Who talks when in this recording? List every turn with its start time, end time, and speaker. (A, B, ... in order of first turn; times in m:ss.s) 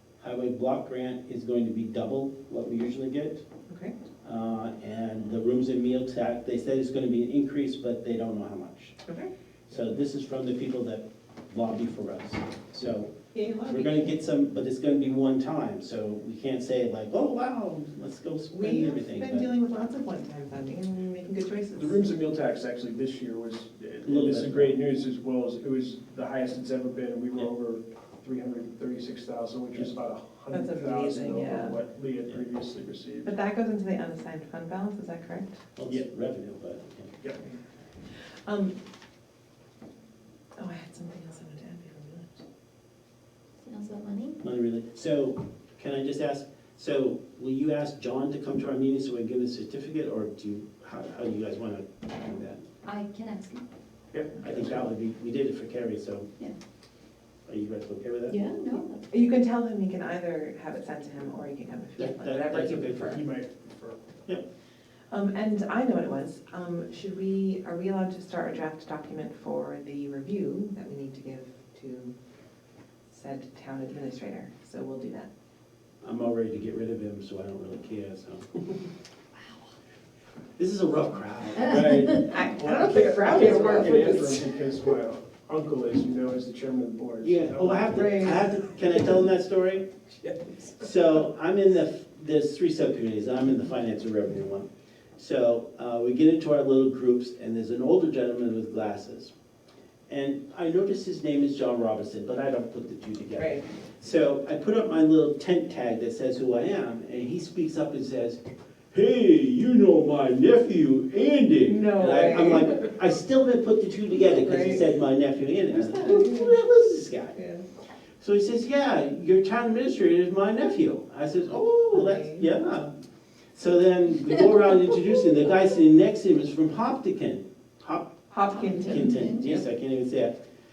0:00.2-0:03.4 A
0:03.7-0:03.9 B
0:04.2-0:09.0 A
0:09.0-0:09.3 B
0:09.7-0:19.5 A
0:13.3-0:14.1 B
0:18.5-0:22.0 B
0:21.8-0:33.3 C
0:24.0-0:24.8 A
0:30.5-0:31.8 B
0:33.2-0:35.6 B
0:35.8-0:37.1 A
0:38.5-0:38.8 B
0:40.6-0:42.4 B
0:43.6-0:44.4 D
0:44.4-0:52.6 A
0:52.8-0:53.6 D
0:54.1-0:54.9 C
0:54.4-0:56.3 A
0:57.5-0:58.4 A
0:58.3-0:59.0 D
0:59.1-1:03.2 B
1:02.0-1:03.2 A
1:03.0-1:04.1 C
1:05.1-1:12.2 B
1:13.1-1:15.3 B
1:16.0-1:18.5 A
1:20.6-1:22.1 A
1:21.6-1:28.1 C
1:22.1-1:24.5 B
1:27.2-1:29.9 A
1:27.9-1:28.6 B
1:30.8-1:39.3 A
1:40.1-1:57.4 A
1:43.4-1:43.6 B
1:51.6-1:52.9 B
1:54.2-1:54.9 B
1:55.7-1:56.6 B
1:57.3-1:57.6 B
1:58.2-2:03.0 A
2:01.9-2:02.5 B
2:03.5-2:10.4 A
2:08.3-2:09.6 B
2:08.6-2:09.4 D